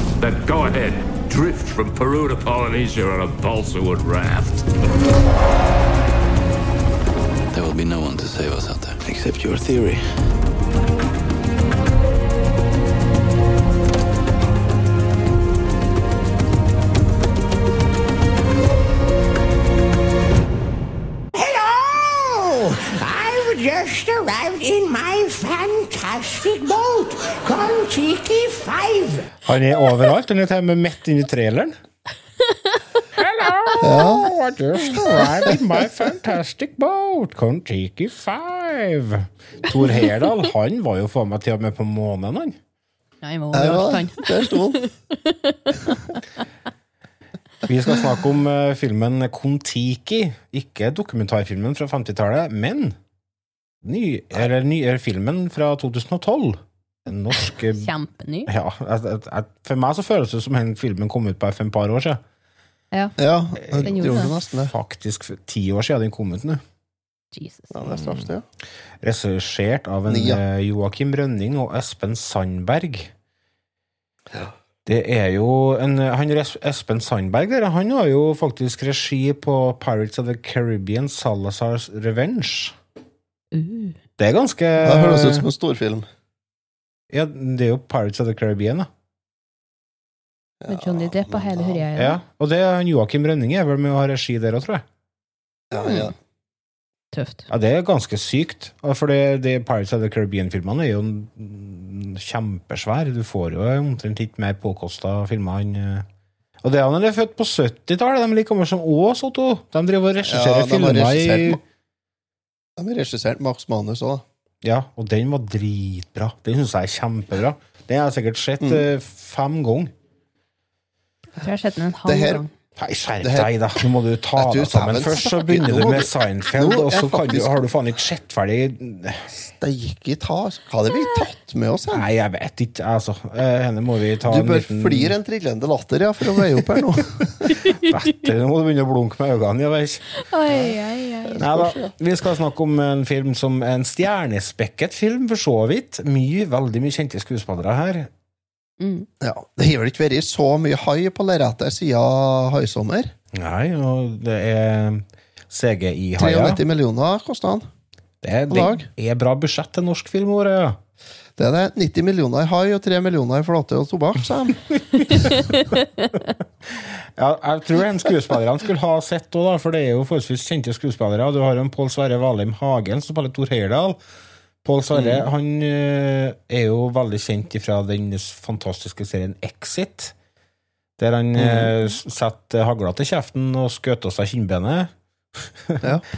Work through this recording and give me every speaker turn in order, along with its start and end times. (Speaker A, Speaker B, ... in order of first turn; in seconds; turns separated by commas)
Speaker A: 0.2-4.6, Speaker B: 7.5-10.1, Speaker C: 21.3-29.3, Speaker D: 29.4-31.7, Speaker D: 33.2-42.6, Speaker E: 33.8-34.3, Speaker E: 35.0-35.6, Speaker F: 43.2-46.2, Speaker E: 43.5-44.9, Speaker D: 47.6-53.0, Speaker D: 53.8-57.9, Speaker F: 57.4-58.5, Speaker D: 58.5-62.2, Speaker F: 62.9-63.2, Speaker E: 63.2-64.7, Speaker D: 63.6-66.6, Speaker F: 63.8-64.3, Speaker F: 67.3-67.7, Speaker E: 67.7-68.5, Speaker D: 69.0-73.1, Speaker E: 70.1-70.4, Speaker D: 74.8-82.8, Speaker F: 83.5-84.0, Speaker D: 84.2-85.4, Speaker E: 84.8-86.1, Speaker D: 87.1-88.9, Speaker E: 90.6-91.8, Speaker F: 90.7-92.2, Speaker D: 92.0-94.8, Speaker E: 95.7-96.1, Speaker F: 95.7-96.1, Speaker F: 97.1-97.5, Speaker D: 97.5-106.0, Speaker D: 106.6-111.6, Speaker E: 110.2-111.6, Speaker E: 112.8-114.2, Speaker D: 114.6-119.9, Speaker E: 118.6-118.8, Speaker F: 121.4-122.5, Speaker E: 122.0-122.4, Speaker D: 122.8-129.3, Speaker E: 123.2-123.5, Speaker E: 124.3-127.6, Speaker E: 129.4-132.1, Speaker D: 131.9-135.1, Speaker E: 134.2-137.5, Speaker F: 137.6-138.1, Speaker D: 137.8-140.1, Speaker F: 140.2-141.4, Speaker E: 141.2-141.9, Speaker D: 141.4-148.1, Speaker F: 148.8-149.1, Speaker E: 149.2-153.1, Speaker D: 153.3-156.6, Speaker E: 156.2-157.7, Speaker D: 158.2-160.8, Speaker E: 158.5-158.9, Speaker E: 161.4-164.6, Speaker D: 164.7-165.6, Speaker F: 165.1-165.8, Speaker D: 166.7-174.0, Speaker D: 174.6-180.1, Speaker E: 174.9-175.3, Speaker D: 181.0-185.9, Speaker E: 181.3-181.7